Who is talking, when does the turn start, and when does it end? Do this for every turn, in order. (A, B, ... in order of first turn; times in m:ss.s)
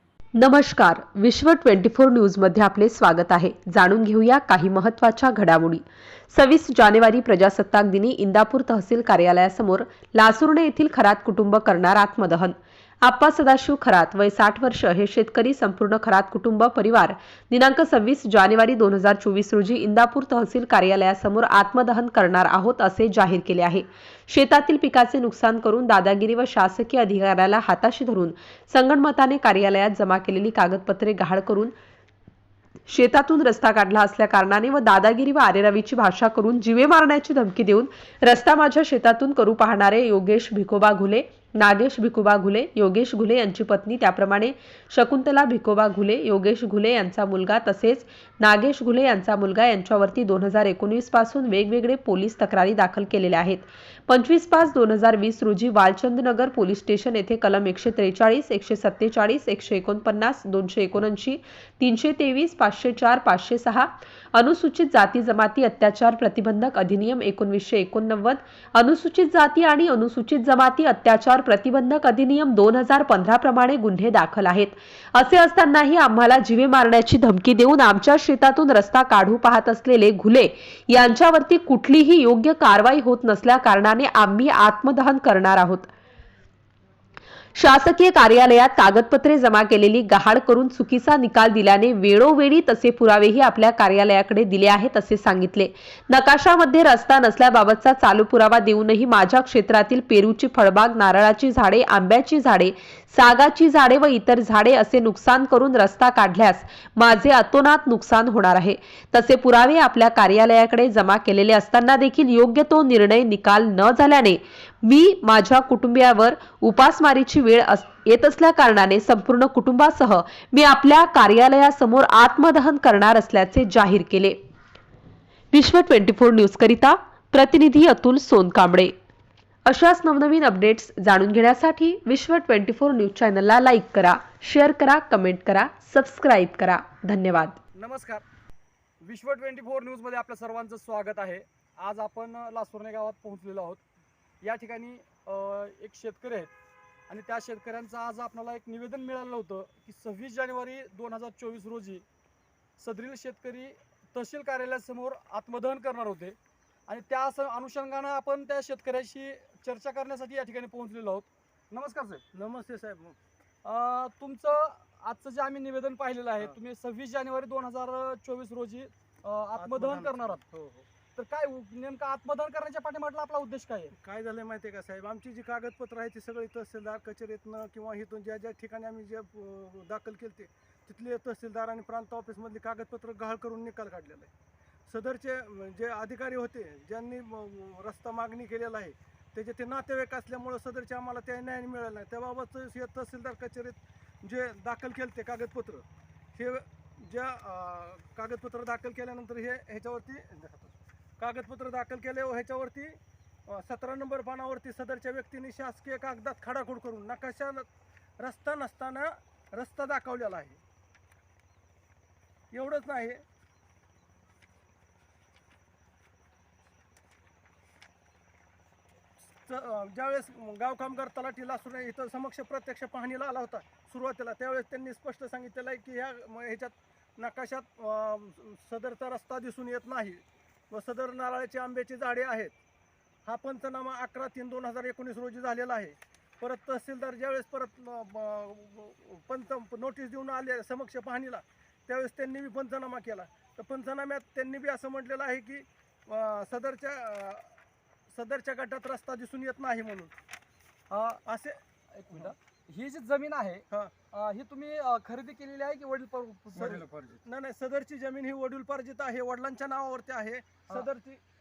0:00.4-0:31.7 A
0:32.9-1:25.9 A
1:27.6-2:04.4 A
2:05.5-2:08.9 A
2:09.7-2:17.6 A
2:17.8-2:18.2 B
2:19.0-2:23.8 B
2:24.4-2:26.5 B
2:27.1-2:32.0 B
2:32.8-2:36.4 B
2:36.9-2:42.2 B
2:42.3-2:43.2 C
2:43.6-2:50.4 B
2:49.6-2:50.9 C
2:51.2-2:53.9 B
2:54.0-3:04.3 C
3:04.9-3:23.0 C
3:23.5-3:27.7 C
3:28.2-3:30.6 C
3:32.5-3:33.2 C
3:39.4-3:52.6 C
3:53.2-4:07.5 C
4:08.1-4:10.1 C
4:10.9-4:11.2 B
4:11.2-4:11.6 C
4:11.9-4:17.2 B
4:16.5-4:21.2 C